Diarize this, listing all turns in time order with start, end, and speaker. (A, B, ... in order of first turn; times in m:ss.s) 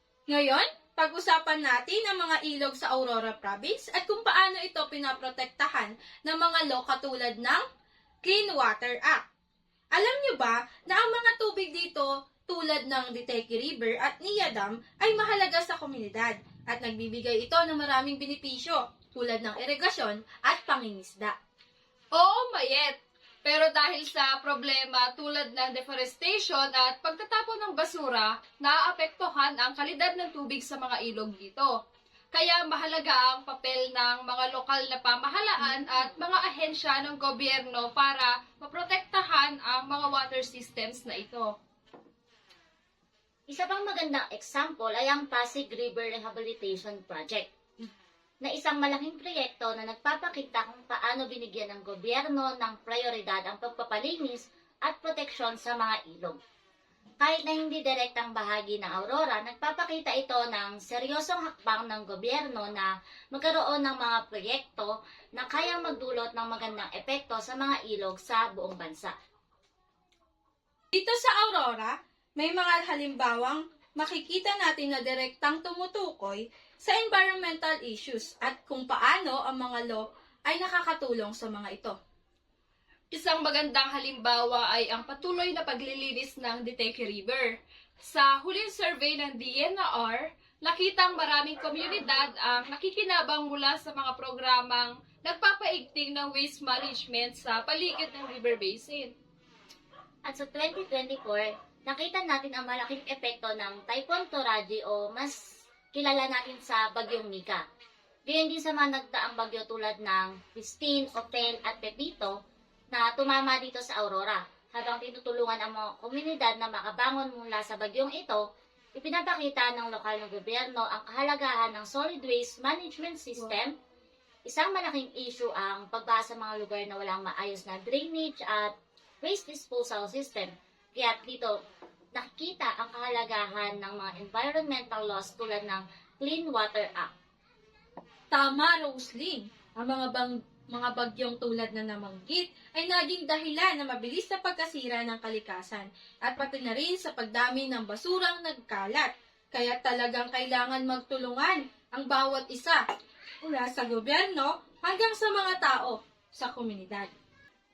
0:00.3-0:07.6 A
0:08.2-0:09.2 A
0:09.9-0:21.4 A
0:22.1-0:31.7 B
0:32.3-0:41.5 B
0:43.5-0:47.5 C
0:48.4-0:56.4 C
0:57.2-1:09.1 C
1:10.9-1:22.0 A
1:23.1-1:39.1 B
1:40.2-1:45.4 C
1:45.9-1:47.6 C
1:48.3-1:52.3 C
1:52.9-1:58.4 C
1:59.0-2:03.8 C
2:04.5-2:11.5 C
2:12.2-2:17.1 C
2:18.3-2:32.8 A
2:33.4-2:37.1 A